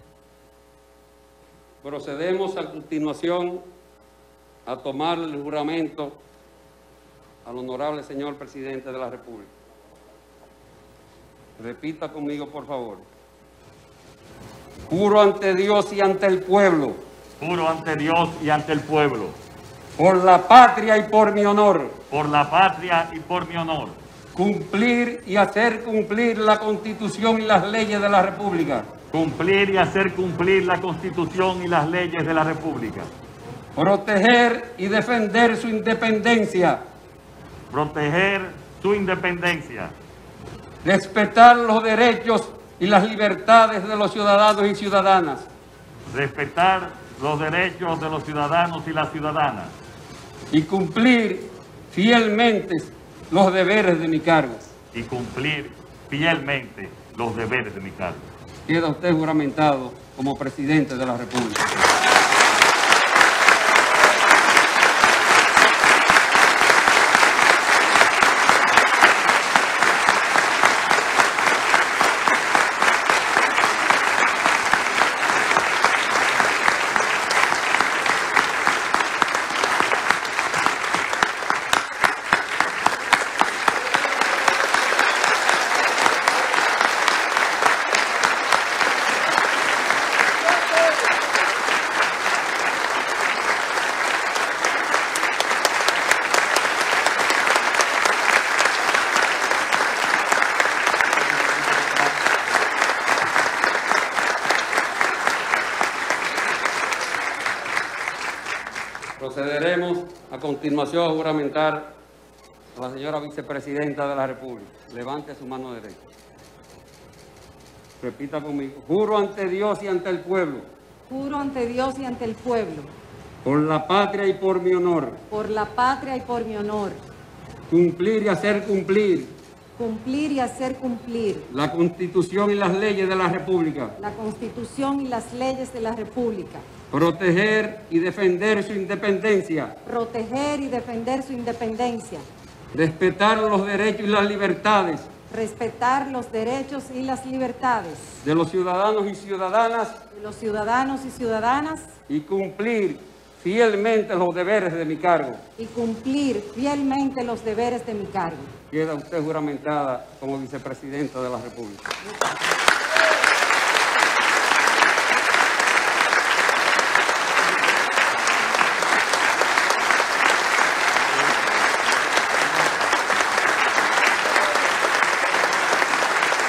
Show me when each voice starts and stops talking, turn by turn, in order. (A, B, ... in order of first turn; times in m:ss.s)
0:01.8-0:03.7 A
0:04.6-0:06.2 A
0:07.4-0:09.5 A
0:11.6-0:13.0 A
0:14.9-0:17.0 A
0:17.4-0:19.4 B
0:20.0-0:22.0 A
0:22.1-0:24.0 B
0:24.3-0:28.9 A
0:29.1-0:33.1 B
0:33.8-0:36.8 A
0:37.7-0:39.9 B
0:40.8-0:45.5 A
0:46.1-0:49.7 B
0:50.5-0:54.7 A
0:54.9-0:58.2 B
0:58.7-1:01.7 A
1:49.2-1:52.0 A
1:52.7-1:56.0 A
1:58.0-2:00.6 A
2:01.1-2:02.9 C
2:03.4-2:05.2 A
2:05.3-2:07.0 C
2:07.7-2:09.3 A
2:09.8-2:11.5 C
2:11.5-2:14.0 A
2:14.0-2:16.6 C
2:16.9-2:19.8 A
2:19.8-2:22.2 C
2:22.7-2:25.1 A
2:25.3-2:28.1 C
2:28.2-2:30.0 A
2:30.1-2:31.9 C
2:32.1-2:35.4 A
2:35.6-2:38.5 C
2:38.7-2:41.9 A